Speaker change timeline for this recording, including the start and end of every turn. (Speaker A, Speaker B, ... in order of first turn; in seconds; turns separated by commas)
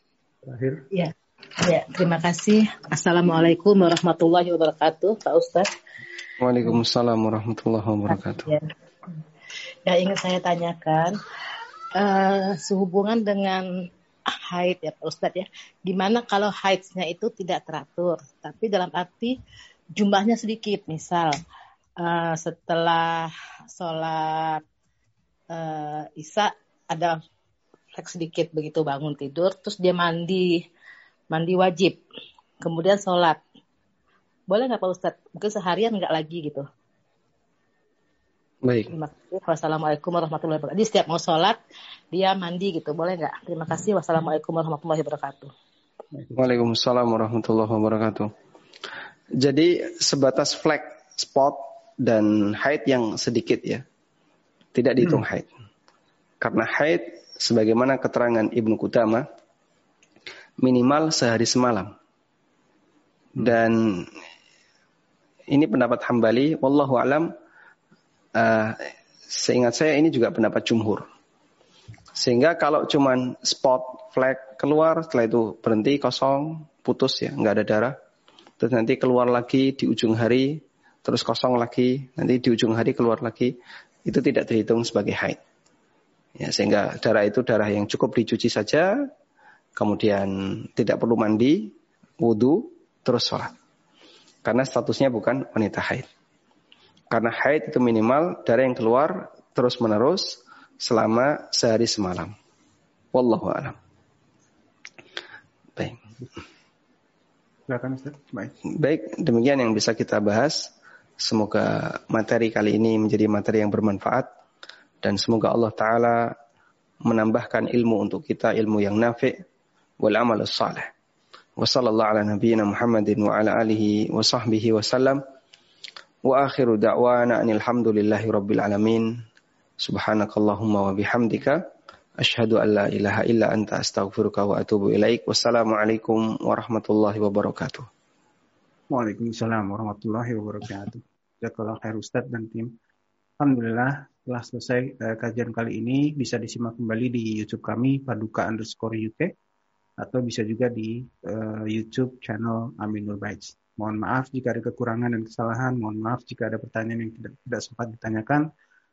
Speaker A: 0.4-0.8, Speaker B: 0.9-5.7, Speaker C: 6.4-8.5, Speaker B: 8.3-8.7, Speaker B: 9.9-11.1, Speaker B: 11.9-13.6, Speaker B: 14.5-19.3, Speaker B: 19.9-21.4, Speaker B: 22.0-24.6, Speaker B: 25.5-27.2, Speaker B: 27.9-30.6, Speaker B: 31.3-32.0, Speaker B: 32.6-33.4, Speaker B: 34.5-36.6, Speaker C: 38.6-38.9, Speaker B: 38.9-41.6, Speaker B: 42.1-45.5, Speaker C: 46.3-48.3, Speaker C: 49.4-53.8, Speaker C: 54.7-55.5, Speaker C: 56.4-59.2, Speaker C: 60.6-61.9, Speaker C: 63.4-64.1, Speaker C: 65.5-67.3, Speaker C: 68.3-71.1, Speaker C: 72.2-77.9, Speaker C: 78.6-85.4, Speaker C: 86.4-88.9, Speaker C: 89.8-93.5, Speaker C: 94.4-96.1, Speaker C: 97.1-102.3, Speaker C: 103.1-103.8, Speaker A: 107.7-108.5, Speaker C: 108.7-110.7, Speaker C: 111.2-114.3, Speaker C: 115.0-116.3, Speaker C: 117.0-119.4, Speaker C: 120.0-120.9, Speaker C: 121.6-125.2, Speaker C: 126.2-129.1, Speaker C: 129.8-131.6, Speaker C: 132.2-137.9, Speaker A: 138.9-142.7, Speaker A: 143.4-149.3, Speaker A: 150.0-158.5